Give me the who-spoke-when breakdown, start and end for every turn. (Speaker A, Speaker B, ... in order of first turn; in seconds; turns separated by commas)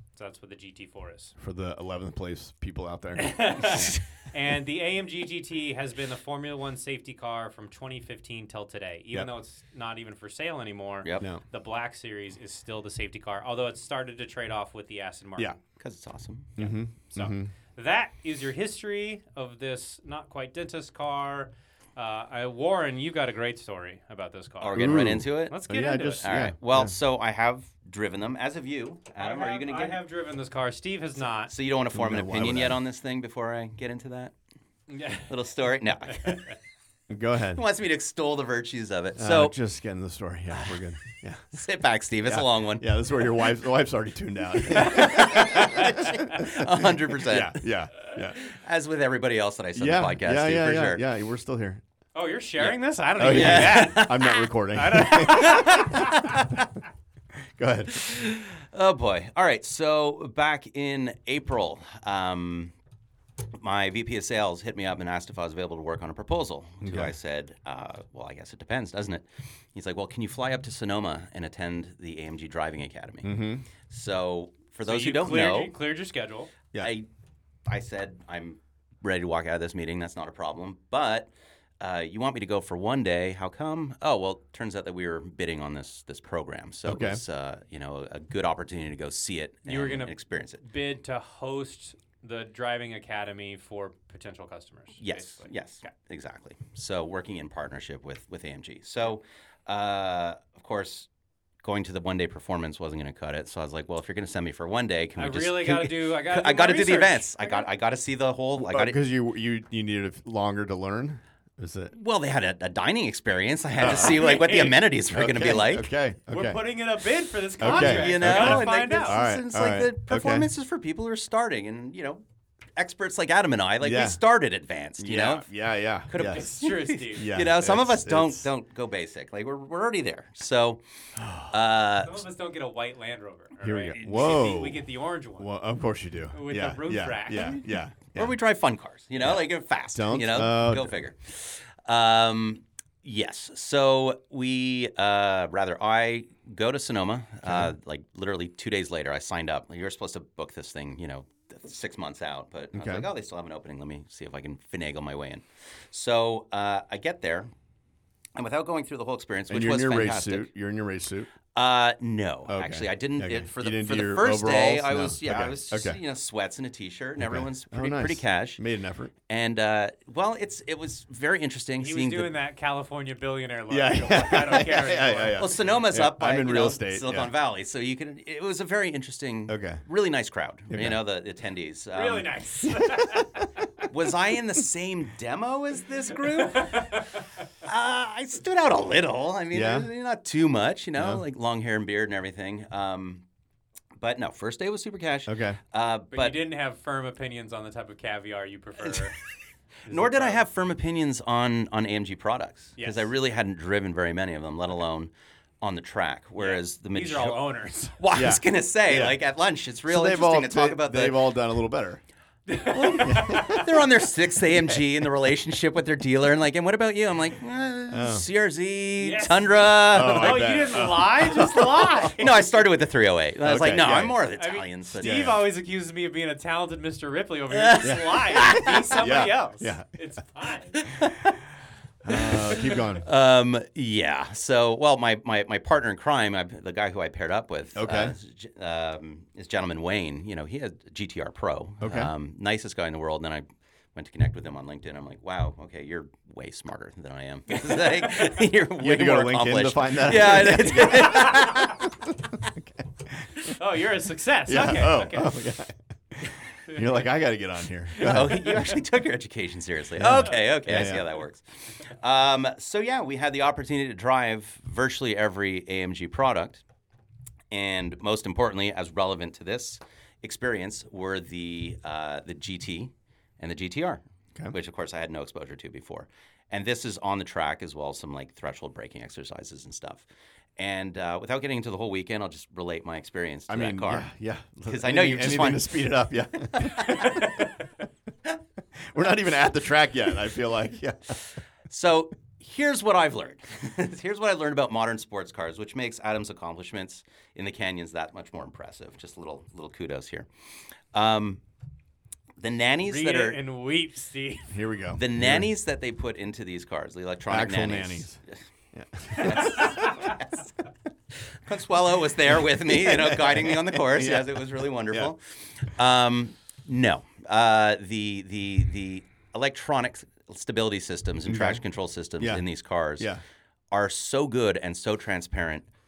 Speaker A: 0.1-1.4, Speaker B: 1.4-4.0, Speaker A: 3.2-15.6, Speaker C: 15.7-16.6, Speaker B: 16.6-17.5, Speaker A: 16.6-26.3, Speaker C: 24.6-25.6, Speaker B: 24.7-26.9, Speaker C: 26.2-30.0, Speaker A: 29.2-31.5, Speaker C: 31.4-34.3, Speaker B: 31.9-32.8, Speaker A: 34.9-35.3, Speaker C: 35.1-36.5, Speaker A: 36.1-36.5, Speaker B: 37.1-37.6, Speaker C: 37.5-39.5, Speaker B: 39.2-41.6, Speaker C: 41.5-42.9, Speaker B: 42.2-48.4, Speaker C: 44.7-51.0, Speaker B: 49.7-51.8, Speaker A: 52.1-56.1, Speaker C: 52.6-54.5, Speaker B: 53.2-56.1, Speaker C: 55.3-56.5, Speaker B: 57.6-58.1, Speaker C: 57.9-62.7, Speaker C: 63.5-75.7, Speaker B: 66.8-67.1, Speaker B: 73.2-73.7, Speaker A: 74.8-76.5, Speaker C: 76.8-77.0, Speaker C: 77.7-90.6, Speaker B: 86.8-87.2, Speaker A: 89.7-95.5, Speaker C: 95.0-101.1, Speaker C: 101.6-109.0, Speaker A: 105.2-107.7, Speaker B: 108.6-111.9, Speaker C: 111.9-115.9, Speaker B: 113.8-114.4, Speaker A: 113.9-114.8, Speaker B: 115.1-116.6, Speaker A: 116.3-119.2, Speaker B: 117.6-120.5, Speaker C: 117.6-122.2, Speaker C: 122.8-125.5, Speaker B: 123.8-124.2, Speaker B: 125.0-126.4, Speaker C: 126.1-130.8, Speaker A: 126.2-127.3, Speaker B: 127.1-128.5, Speaker B: 131.2-131.5, Speaker C: 131.5-132.2, Speaker A: 132.0-135.5, Speaker B: 133.6-134.9, Speaker B: 135.4-138.3, Speaker A: 136.3-137.6, Speaker C: 138.1-157.5, Speaker B: 139.2-141.0, Speaker B: 147.4-147.7, Speaker B: 152.7-153.1, Speaker C: 158.3-160.5, Speaker B: 159.5-161.3, Speaker C: 161.5-168.6, Speaker B: 162.5-166.0, Speaker B: 167.2-169.1, Speaker C: 169.3-172.3, Speaker A: 171.8-175.4, Speaker B: 173.7-177.3, Speaker C: 175.3-182.3, Speaker B: 179.5-179.8, Speaker B: 180.7-181.0, Speaker A: 181.9-183.8, Speaker C: 183.8-187.0, Speaker A: 186.3-187.2, Speaker C: 187.6-193.2, Speaker B: 189.5-189.9, Speaker B: 191.0-191.2, Speaker C: 194.0-196.4, Speaker B: 195.3-195.6, Speaker A: 196.1-199.2, Speaker A: 199.9-200.4, Speaker C: 199.9-207.4, Speaker A: 202.8-203.1, Speaker A: 206.4-208.0, Speaker C: 208.0-211.3, Speaker B: 208.1-209.2, Speaker B: 209.9-212.0, Speaker A: 212.5-213.7, Speaker C: 212.7-220.8, Speaker B: 213.0-213.7, Speaker B: 217.9-218.2, Speaker A: 219.0-222.4, Speaker B: 219.9-222.0, Speaker C: 222.0-225.4, Speaker B: 223.4-224.2, Speaker A: 224.4-230.8, Speaker B: 225.0-225.4, Speaker C: 227.5-228.8, Speaker B: 227.8-229.8, Speaker C: 230.8-231.4, Speaker B: 232.0-233.1, Speaker C: 232.1-251.9, Speaker B: 237.7-238.1, Speaker B: 241.8-242.1, Speaker A: 247.5-248.3, Speaker B: 248.8-253.3, Speaker A: 250.9-251.7, Speaker A: 253.5-255.3, Speaker B: 254.5-258.6, Speaker C: 258.0-266.6, Speaker B: 259.9-261.1, Speaker C: 267.5-280.0, Speaker C: 280.6-284.1, Speaker B: 283.5-287.3, Speaker C: 284.7-285.9, Speaker C: 286.6-287.2, Speaker A: 287.0-287.3, Speaker B: 288.7-291.2, Speaker C: 291.7-300.3, Speaker C: 300.9-301.4, Speaker C: 302.4-303.4, Speaker A: 302.8-304.6, Speaker B: 304.5-305.5, Speaker C: 304.9-308.2, Speaker B: 307.3-308.2, Speaker B: 308.7-310.1, Speaker C: 309.1-310.5, Speaker A: 309.6-310.1, Speaker C: 311.3-323.1, Speaker B: 312.6-315.1, Speaker B: 321.2-321.6, Speaker C: 323.7-325.6